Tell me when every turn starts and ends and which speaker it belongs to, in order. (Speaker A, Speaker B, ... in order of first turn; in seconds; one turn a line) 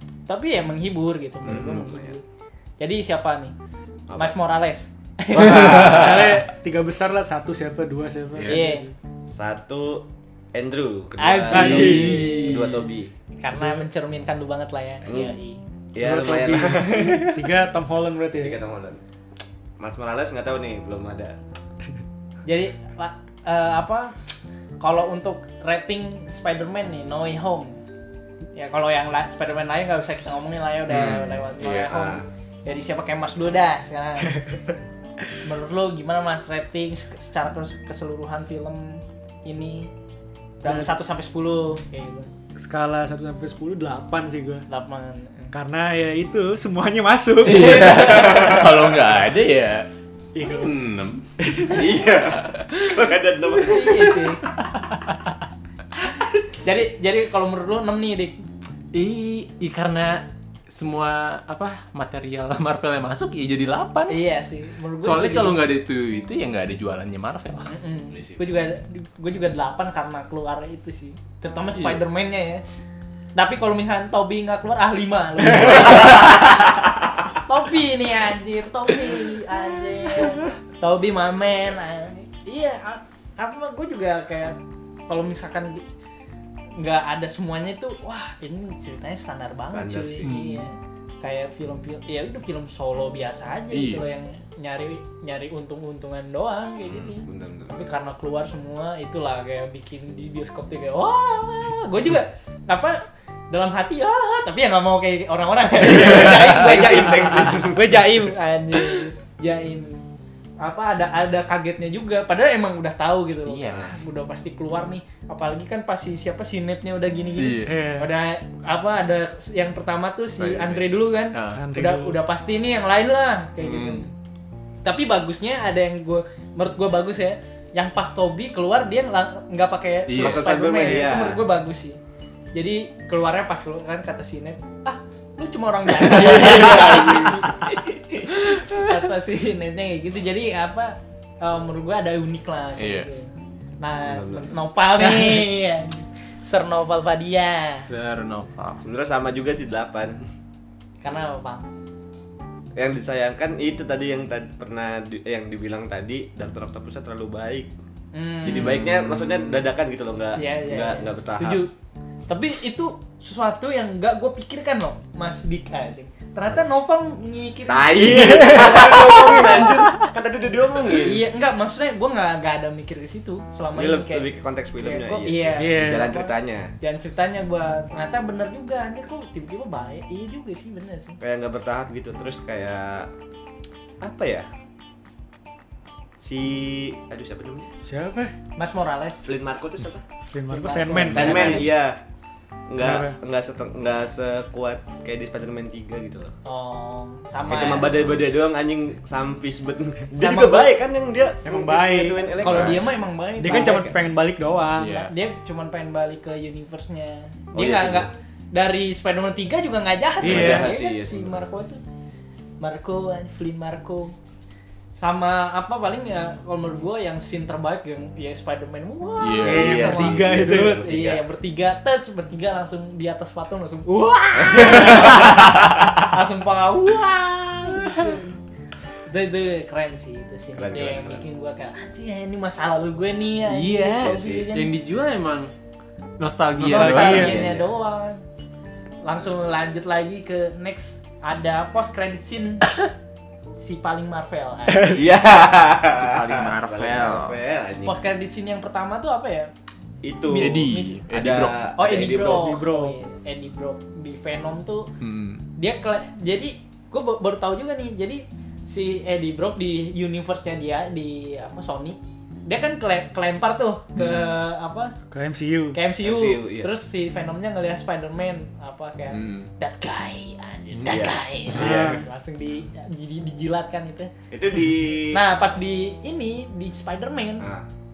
Speaker A: 0.3-2.2
Speaker B: 1.4-2.2
Speaker A: 2.8-3.5
Speaker B: 4.1-4.4
Speaker A: 4.2-6.0
Speaker B: 5.3-6.4
Speaker C: 5.4-8.9
Speaker D: 8.4-8.6
Speaker A: 8.4-8.9
Speaker B: 9.3-13.1
Speaker A: 11.2-12.8
Speaker C: 11.5-12.5
Speaker D: 11.8-12.3
Speaker A: 13.4-15.6
Speaker B: 15.1-15.3
Speaker B: 15.9-17.3
Speaker C: 16.0-18.6
Speaker B: 18.3-19.0
Speaker B: 19.8-21.4
Speaker A: 22.4-24.1
Speaker A: 24.8-27.8
Speaker A: 28.5-34.4
Speaker D: 30.9-31.9
Speaker B: 31.7-32.3
Speaker A: 35.4-39.9
Speaker A: 40.6-42.3
Speaker C: 40.6-40.9
Speaker C: 42.6-44.7
Speaker A: 44.7-45.5
Speaker C: 45.5-48.2
Speaker D: 47.4-49.9
Speaker A: 47.6-48.5
Speaker B: 48.1-48.7
Speaker C: 50.4-50.7
Speaker D: 50.4-51.2
Speaker C: 51.4-51.8
Speaker B: 51.6-54.4
Speaker A: 53.6-54.4
Speaker A: 56.6-58.4
Speaker D: 58.9-64.2
Speaker A: 64.1-65.6
Speaker D: 65.0-67.7
Speaker A: 67.7-72.6
Speaker B: 68.1-68.5
Speaker A: 73.3-76.7
Speaker A: 77.4-85.8
Speaker A: 86.8-110.0
Speaker B: 89.7-90.3
Speaker C: 90.2-90.6
Speaker D: 93.7-94.0
Speaker B: 96.8-97.7
Speaker B: 105.8-107.9
Speaker A: 110.6-124.1
Speaker D: 113.5-113.9
Speaker B: 113.7-114.0
Speaker D: 117.4-117.8
Speaker C: 117.7-118.1
Speaker D: 120.4-120.8
Speaker D: 121.3-121.6
Speaker C: 121.5-122.2
Speaker D: 123.6-124.1
Speaker A: 124.8-132.0
Speaker D: 130.1-130.5
Speaker B: 130.2-131.4
Speaker A: 132.5-147.9
Speaker D: 142.8-143.1
Speaker B: 144.1-144.6
Speaker D: 147.8-148.8
Speaker B: 148.8-150.2
Speaker A: 151.0-151.7
Speaker B: 152.8-157.7
Speaker A: 158.1-158.8
Speaker B: 158.4-161.7
Speaker D: 158.6-159.7
Speaker A: 160.4-161.7
Speaker A: 162.3-169.7
Speaker B: 167.7-171.2
Speaker C: 168.2-169.1
Speaker A: 171.0-181.2
Speaker B: 173.7-176.7
Speaker C: 175.6-176.2
Speaker B: 181.2-183.1
Speaker B: 184.0-184.5
Speaker B: 186.2-187.7
Speaker C: 187.8-188.3
Speaker A: 188.6-189.2
Speaker B: 189.2-190.0
Speaker C: 190.3-191.7
Speaker A: 190.5-191.7
Speaker B: 190.9-192.0
Speaker B: 192.7-196.3
Speaker C: 192.8-193.2
Speaker A: 196.4-198.0
Speaker B: 197.4-202.9
Speaker D: 197.7-198.2
Speaker A: 200.2-200.8
Speaker C: 201.4-202.4
Speaker A: 202.4-203.9
Speaker C: 203.4-205.0
Speaker B: 203.4-203.9
Speaker D: 204.8-205.1
Speaker A: 205.1-211.8
Speaker B: 207.5-208.1
Speaker C: 210.2-210.8
Speaker B: 210.2-211.4
Speaker A: 212.6-214.2
Speaker A: 215.0-228.4
Speaker D: 219.2-220.0
Speaker C: 219.4-220.8
Speaker B: 219.5-221.2
Speaker B: 224.4-225.8
Speaker A: 229.1-234.7
Speaker B: 230.6-231.2
Speaker D: 233.5-235.5
Speaker B: 234.0-234.5
Speaker D: 236.2-237.4
Speaker C: 236.6-237.4
Speaker A: 236.6-238.2
Speaker B: 236.9-237.7
Speaker A: 239.0-242.7
Speaker A: 243.6-245.1
Speaker B: 244.8-248.0
Speaker D: 245.8-247.4
Speaker A: 247.8-249.5
Speaker B: 250.0-252.6
Speaker A: 250.2-251.0
Speaker D: 250.3-251.6
Speaker A: 251.8-254.9
Speaker C: 252.4-253.0
Speaker D: 255.0-255.4
Speaker A: 255.6-264.9
Speaker D: 263.9-264.4
Speaker C: 265.1-265.8
Speaker A: 265.7-274.1
Speaker B: 266.0-266.7
Speaker D: 269.1-269.5
Speaker B: 270.9-272.0
Speaker C: 271.6-272.0
Speaker B: 274.3-275.2
Speaker A: 275.1-277.5
Speaker B: 277.4-277.7